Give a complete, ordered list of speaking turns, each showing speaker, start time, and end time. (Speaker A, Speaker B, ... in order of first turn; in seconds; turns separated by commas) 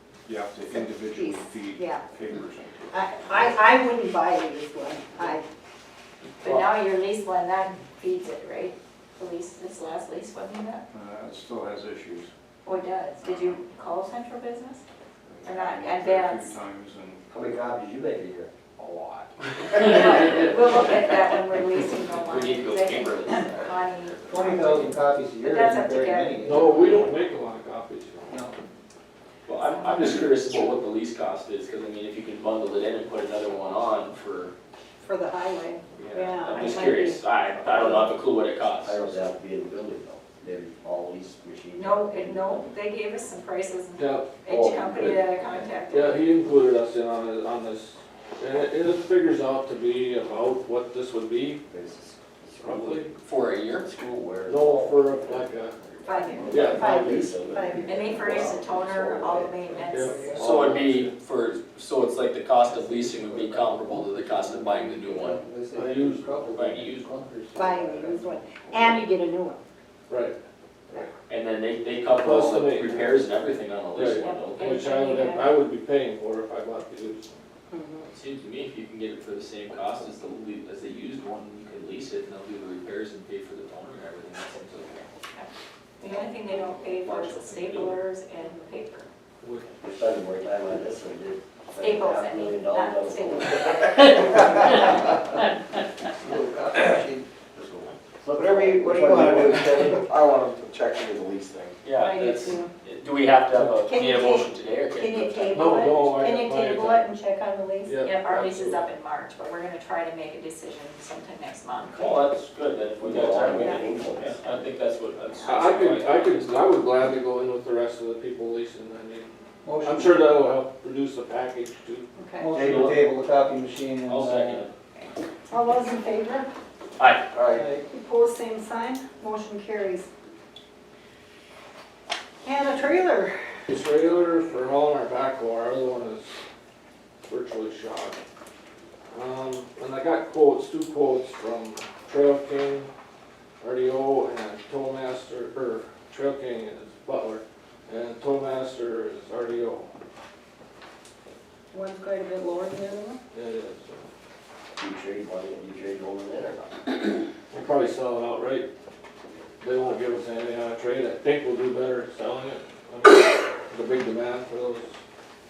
Speaker A: 0.2-2.7, Speaker B: 0.8-2.0, Speaker B: 2.9-5.4, Speaker C: 6.4-10.8, Speaker A: 10.9-12.3, Speaker C: 12.6-14.8, Speaker A: 13.2-13.6, Speaker A: 15.3-17.2, Speaker C: 15.4-16.6, Speaker D: 17.3-18.5, Speaker A: 18.8-19.3, Speaker C: 19.8-24.2, Speaker E: 22.1-24.8, Speaker F: 24.3-27.1, Speaker C: 25.4-26.5, Speaker G: 26.4-28.5, Speaker F: 28.3-28.5, Speaker E: 29.4-34.5, Speaker B: 35.0-37.2, Speaker E: 36.0-39.2, Speaker D: 37.6-38.1, Speaker D: 38.8-42.6, Speaker C: 41.7-46.2, Speaker G: 44.0-45.2, Speaker D: 44.5-45.1, Speaker G: 45.9-51.6, Speaker D: 51.7-53.1, Speaker G: 52.6-53.1, Speaker E: 53.2-53.9, Speaker D: 53.8-59.5, Speaker G: 54.5-55.8, Speaker B: 56.1-58.2, Speaker G: 56.5-57.0, Speaker C: 57.8-60.3, Speaker F: 59.3-60.7, Speaker G: 59.9-61.1, Speaker E: 60.4-65.5, Speaker F: 62.7-68.3, Speaker G: 65.7-66.3, Speaker E: 66.5-67.4, Speaker B: 67.5-69.6, Speaker G: 70.1-70.3, Speaker E: 71.3-74.8, Speaker G: 72.1-73.0, Speaker G: 73.9-77.3, Speaker C: 74.2-75.6, Speaker B: 77.7-78.1, Speaker E: 78.1-85.1, Speaker C: 85.3-89.1, Speaker E: 86.6-88.0, Speaker G: 89.4-89.7, Speaker D: 89.8-94.7, Speaker C: 91.8-94.1, Speaker F: 96.2-97.2, Speaker D: 97.5-100.0, Speaker F: 98.3-100.1, Speaker E: 101.8-106.2, Speaker B: 101.9-102.7, Speaker G: 103.5-103.8, Speaker B: 103.8-108.0, Speaker G: 105.5-107.1, Speaker G: 107.8-108.8, Speaker C: 108.0-112.3, Speaker E: 111.9-116.8, Speaker D: 113.0-114.3, Speaker B: 113.5-113.8, Speaker G: 115.4-122.0, Speaker F: 119.6-120.3, Speaker B: 122.2-122.5, Speaker F: 122.4-124.7, Speaker E: 122.5-123.0, Speaker E: 124.1-124.7, Speaker B: 125.5-126.5, Speaker E: 127.0-127.6, Speaker F: 127.5-127.8, Speaker B: 127.8-130.1, Speaker B: 132.4-133.3, Speaker G: 133.7-136.4, Speaker G: 137.3-138.2, Speaker G: 139.1-142.9, Speaker G: 143.6-149.9, Speaker B: 151.7-153.2, Speaker G: 153.3-154.0, Speaker D: 154.8-156.9, Speaker G: 157.5-158.7, Speaker G: 159.6-164.9